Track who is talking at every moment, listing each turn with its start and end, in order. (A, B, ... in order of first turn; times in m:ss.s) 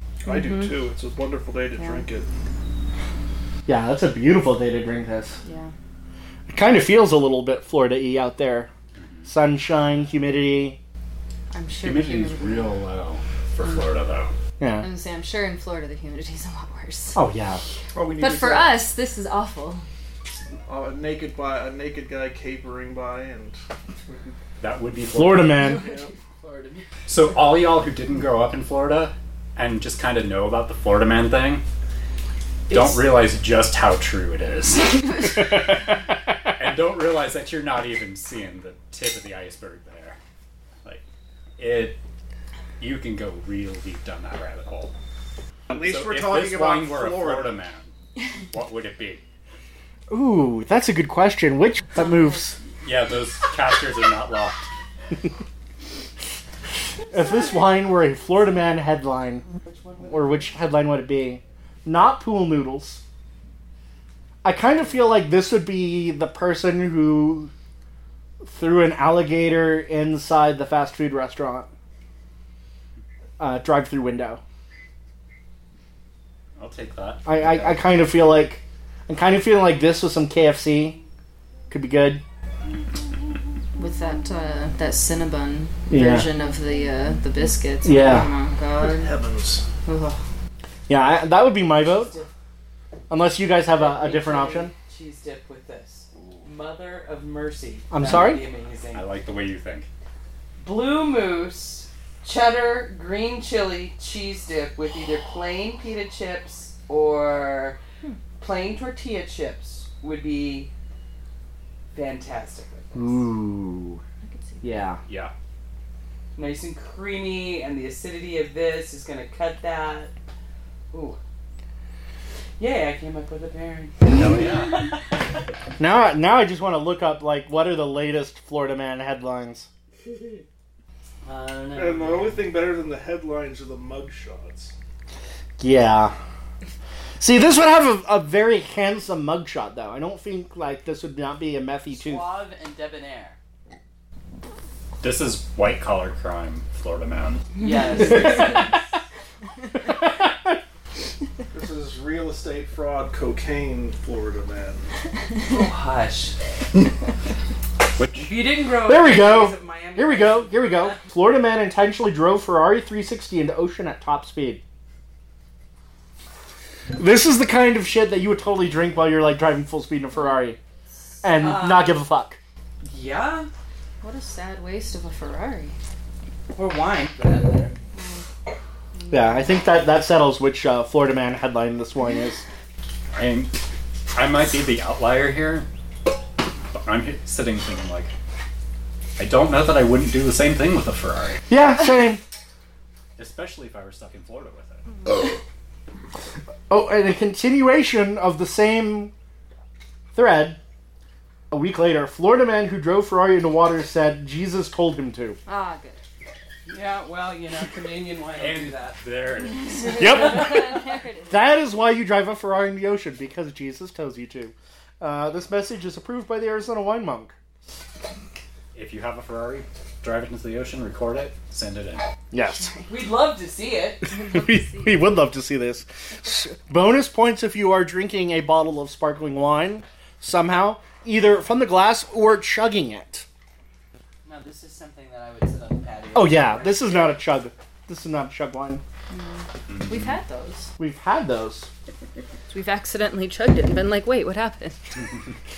0:00.2-0:02.3 A
0:00.2-0:00.8 B
0:01.8-0:02.0 B
0:03.7-0:05.4 C
0:05.4-0:05.7 B
0:06.5-0:08.7 C
0:09.0-0:09.3 D
0:09.2-0:10.8 C
0:11.5-0:12.7 B
0:11.8-0:14.3 D
0:14.6-0:14.9 C
0:14.8-0:17.2 B
0:17.1-0:17.6 C
0:17.9-0:18.9 A
0:18.1-0:19.8 B
0:20.6-0:24.4 A
0:24.6-0:25.6 D
0:25.0-0:25.8 C
0:25.6-0:26.1 B
0:25.8-0:26.1 A
0:26.4-0:26.9 E
0:27.1-0:31.6 D
0:32.7-0:40.2 D
0:32.7-0:33.0 E
0:41.6-0:42.0 D
0:42.8-0:45.0 D
0:45.7-0:47.6 A
0:45.7-0:47.9 D
0:48.5-0:49.2 D
0:50.1-0:52.6 C
0:52.8-0:54.7 D
0:57.1-0:59.4 C
0:59.6-1:00.5 E
1:00.0-1:03.0 C
1:04.4-1:07.5 C
1:08.4-1:11.7 C
1:13.4-1:14.4 C
1:16.6-1:17.9 D
1:17.2-1:21.0 C
1:21.7-1:22.2 C
1:23.8-1:29.1 B
1:25.9-1:26.3 C
1:27.8-1:28.3 C
1:28.8-1:29.7 A
1:29.8-1:30.2 B
1:30.9-1:32.2 C
1:31.8-1:32.3 E
1:33.1-1:34.7 C
1:33.7-1:39.1 E
1:37.9-1:38.4 C
1:38.9-1:39.9 D
1:40.6-1:47.8 E
1:48.4-1:50.7 E
1:51.9-1:53.2 E
1:52.9-1:54.0 C
1:54.2-1:54.9 B
1:54.6-1:55.0 C
1:55.0-1:55.3 D
1:56.3-2:00.1 E
2:00.9-2:01.2 E
2:02.6-2:04.3 E
2:04.0-2:04.9 D
2:05.8-2:09.7 C
2:11.2-2:12.4 E
2:11.7-2:14.7 A
2:15.6-2:16.1 C
2:17.2-2:22.3 C
2:21.9-2:23.4 E
2:25.0-2:27.4 D
2:27.6-2:28.9 E
2:28.2-2:28.5 C
2:29.8-2:30.6 C
2:31.5-2:34.9 A
2:35.4-2:36.4 E
2:38.0-2:38.3 D
2:38.2-2:41.0 E
2:38.8-2:44.6 C
2:46.9-2:50.6 C
2:51.2-2:52.4 C
2:51.3-2:52.0 E
2:52.8-2:53.5 E
2:54.0-2:55.8 B
2:56.5-2:57.8 E
2:57.9-2:58.3 B
2:58.9-2:59.6 B
2:59.1-3:02.4 C
3:03.1-3:03.6 D
3:04.1-3:05.7 D
3:06.7-3:08.1 D
3:09.2-3:11.4 D
3:11.5-3:12.2 C
3:13.2-3:15.4 D
3:16.7-3:19.1 C
3:20.1-3:20.6 C
3:21.5-3:25.4 C
3:25.4-3:26.0 B
3:26.6-3:29.0 E
3:28.4-3:30.2 D
3:29.7-3:30.0 E
3:29.9-3:30.8 C
3:30.1-3:31.4 B
3:31.3-3:37.4 C
3:38.7-3:42.0 D
3:42.3-3:42.7 C
3:42.9-3:44.0 E
3:44.0-3:53.2 C
3:44.1-3:45.0 B
3:54.2-3:56.9 E
3:56.1-3:58.8 C
3:59.1-4:00.7 B
4:00.8-4:01.7 C
4:02.5-4:05.0 B